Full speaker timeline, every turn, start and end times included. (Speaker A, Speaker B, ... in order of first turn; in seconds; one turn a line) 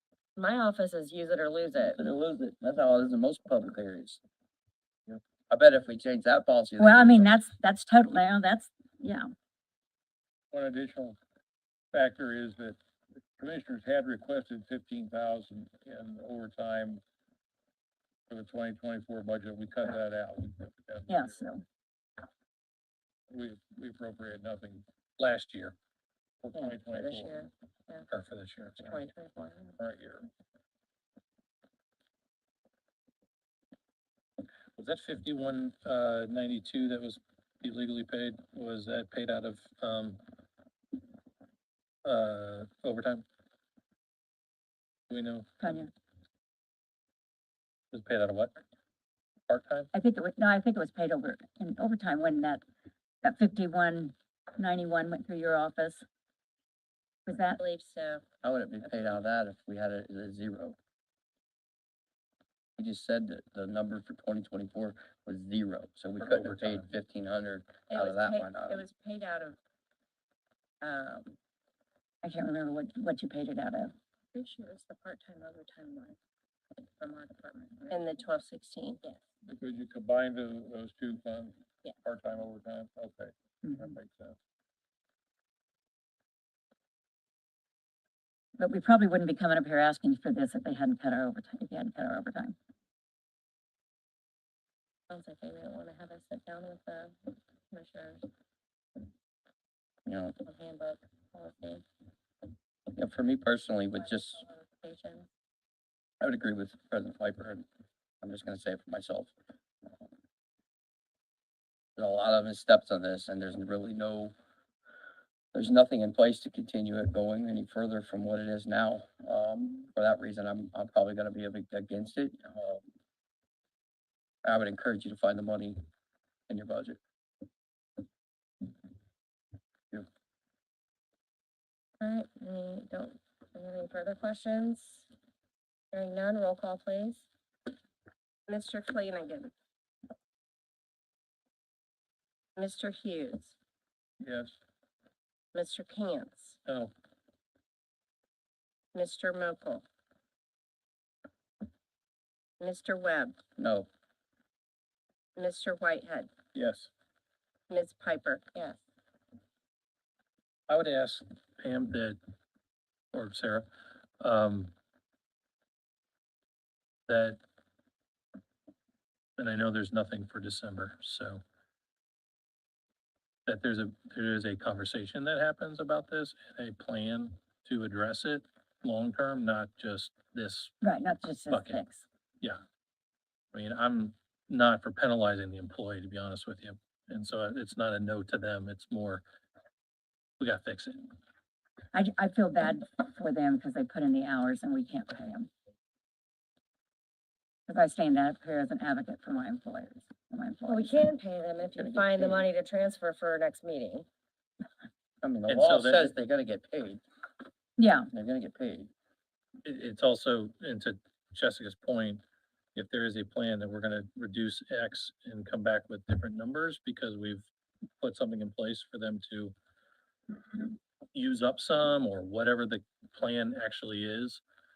Speaker A: 0.4-2.0
Speaker B: 2.0-4.2
Speaker B: 5.5-7.3
Speaker C: 6.8-9.3
Speaker D: 10.5-11.2
Speaker D: 11.9-12.8
Speaker D: 13.3-17.0
Speaker D: 18.3-21.4
Speaker C: 21.1-21.6
Speaker D: 23.3-24.9
Speaker E: 25.2-25.8
Speaker D: 26.4-27.4
Speaker A: 26.6-28.1
Speaker E: 28.1-29.0
Speaker A: 28.8-29.8
Speaker D: 29.8-30.3
Speaker E: 34.8-40.2
Speaker E: 42.0-43.2
Speaker E: 45.1-45.6
Speaker C: 45.6-45.9
Speaker E: 47.9-48.6
Speaker E: 49.5-49.9
Speaker C: 49.9-52.6
Speaker C: 53.2-56.0
Speaker C: 57.3-57.6
Speaker A: 57.6-58.2
Speaker B: 58.4-60.8
Speaker B: 62.8-68.8
Speaker E: 66.2-66.9
Speaker A: 67.9-69.6
Speaker A: 70.8-71.4
Speaker C: 72.2-73.9
Speaker A: 74.3-76.2
Speaker A: 77.0-79.2
Speaker D: 79.4-84.4
Speaker C: 83.6-83.9
Speaker C: 88.6-92.5
Speaker A: 95.1-97.2
Speaker A: 97.7-98.3
Speaker B: 100.1-100.4
Speaker A: 100.4-101.8
Speaker B: 102.9-104.4
Speaker A: 104.0-105.3
Speaker B: 106.2-107.7
Speaker B: 108.2-109.3
Speaker B: 112.0-114.3
Speaker B: 115.5-122.8
Speaker B: 124.4-125.8
Speaker B: 126.5-127.0
Speaker A: 132.0-135.1
Speaker A: 135.9-137.3
Speaker A: 138.5-139.5
Speaker A: 142.6-143.6
Speaker D: 144.2-144.6
Speaker A: 145.5-146.6
Speaker E: 146.7-146.9
Speaker A: 148.9-149.8
Speaker A: 152.6-153.4
Speaker B: 153.6-153.9
Speaker A: 155.4-156.3
Speaker E: 156.5-156.9
Speaker A: 157.7-158.8
Speaker E: 160.7-162.2
Speaker E: 163.1-163.7
Speaker E: 164.2-164.7
Speaker E: 167.1-167.4
Speaker E: 169.4-171.4
Speaker E: 173.5-180.8
Speaker C: 180.8-182.1
Speaker E: 181.5-181.8
Speaker E: 183.5-189.2
Speaker E: 190.4-191.1
Speaker C: 191.9-195.5
Speaker C: 197.7-201.1
Speaker A: 200.7-204.1
Speaker B: 201.8-202.5
Speaker B: 205.2-207.0
Speaker E: 205.5-206.1
Speaker C: 207.8-208.1
Speaker B: 208.1-208.9
Speaker E: 209.6-212.2
Speaker E: 212.8-217.5
Speaker E: 218.0-219.6
Speaker E: 220.6-224.4